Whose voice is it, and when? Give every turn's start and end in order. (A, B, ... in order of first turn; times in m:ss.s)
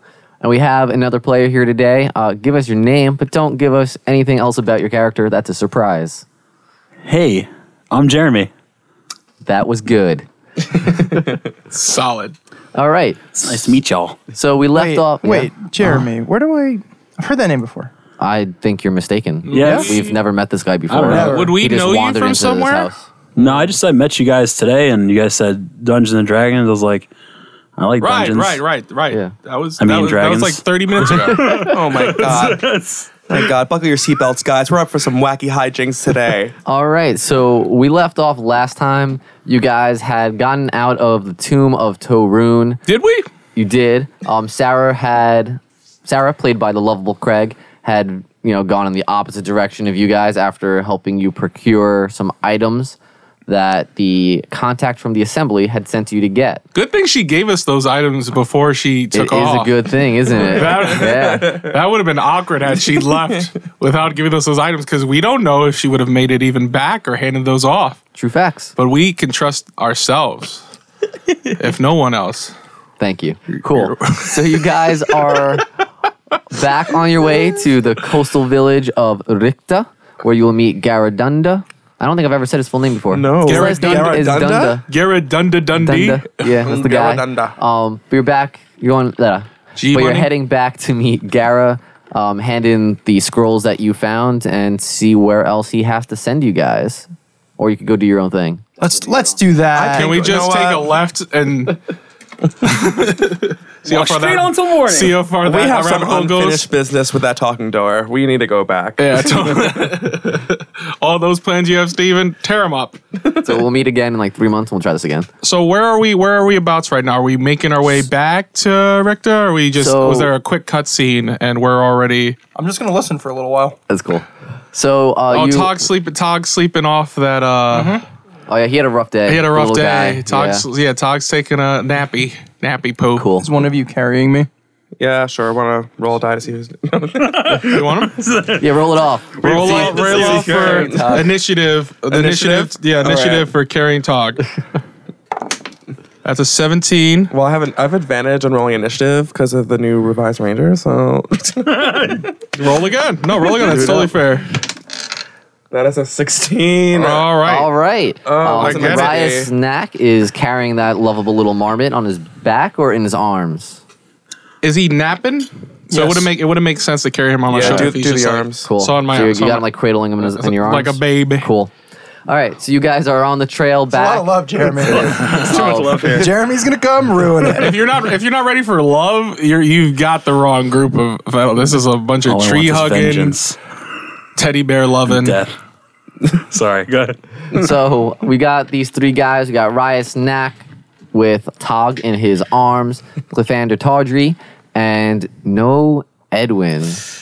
0:00.4-0:06.3 A
0:07.0-0:08.5 B
0:09.4-0:10.3 A
0:11.7-0:12.4 C
0:12.8-0:13.6 A
0:13.4-0:14.2 B
0:14.3-0:16.0 A
0:14.8-0:17.9 D
0:18.2-0:23.1 A
0:19.5-0:20.2 C
0:19.5-0:20.0 B
0:19.6-0:19.9 D
0:20.9-0:21.5 B
0:21.1-0:21.5 D
0:21.1-0:22.9 C
0:23.4-0:27.1 B
0:27.8-0:28.6 B
0:28.0-0:31.8 C
0:29.8-0:33.4 B
0:31.5-0:32.7 E
0:33.3-0:36.5 E
0:36.6-0:42.8 A
0:42.9-0:43.3 C
0:43.6-0:56.6 A
0:56.7-1:08.0 C
0:59.1-1:01.6 A
1:08.2-1:08.7 A
1:08.8-1:10.6 C
1:11.5-1:12.5 C
1:13.0-1:15.7 A
1:13.8-1:14.4 C
1:16.5-1:24.8 A
1:23.1-1:24.8 E
1:23.4-1:26.4 C
1:25.8-1:38.6 A
1:26.6-1:27.6 E
1:29.8-1:30.3 C
1:38.8-1:40.1 D
1:39.7-1:40.9 E
1:39.9-1:41.8 C
1:42.6-1:46.7 C
1:43.9-1:45.2 B
1:45.4-1:50.0 E
1:49.0-1:53.0 C
1:53.4-1:55.3 A
1:55.4-2:02.4 C
1:59.8-2:00.3 A
2:02.6-2:03.8 D
2:03.9-2:05.8 A
2:05.3-2:08.0 C
2:07.7-2:08.0 D
2:08.5-2:10.6 A
2:09.3-2:13.3 C
2:13.2-2:13.5 A
2:13.4-2:14.5 D
2:15.0-2:17.9 E
2:17.5-2:18.2 C
2:18.2-2:18.7 B
2:18.6-2:21.3 A
2:19.4-2:24.4 C
2:19.5-2:21.3 E
2:22.1-2:23.5 E
2:26.2-2:27.3 C
2:27.3-2:32.3 E
2:32.6-2:34.6 C
2:33.4-2:34.1 E
2:35.7-2:37.3 E
2:36.9-2:37.7 C
2:37.5-2:43.8 A
2:38.2-2:39.5 E
2:38.5-2:39.3 C
2:44.6-2:49.7 C
2:45.9-2:46.3 D
2:47.5-2:48.7 E
2:47.6-2:47.9 A
2:48.6-2:51.7 A
2:50.3-2:51.5 C
2:52.3-2:56.1 A
2:53.9-2:57.8 D
2:55.0-2:56.3 B
2:57.6-3:03.4 C
3:02.2-3:03.6 B
3:04.4-3:05.4 C
3:05.0-3:05.5 B
3:06.3-3:07.2 B
3:07.5-3:17.0 A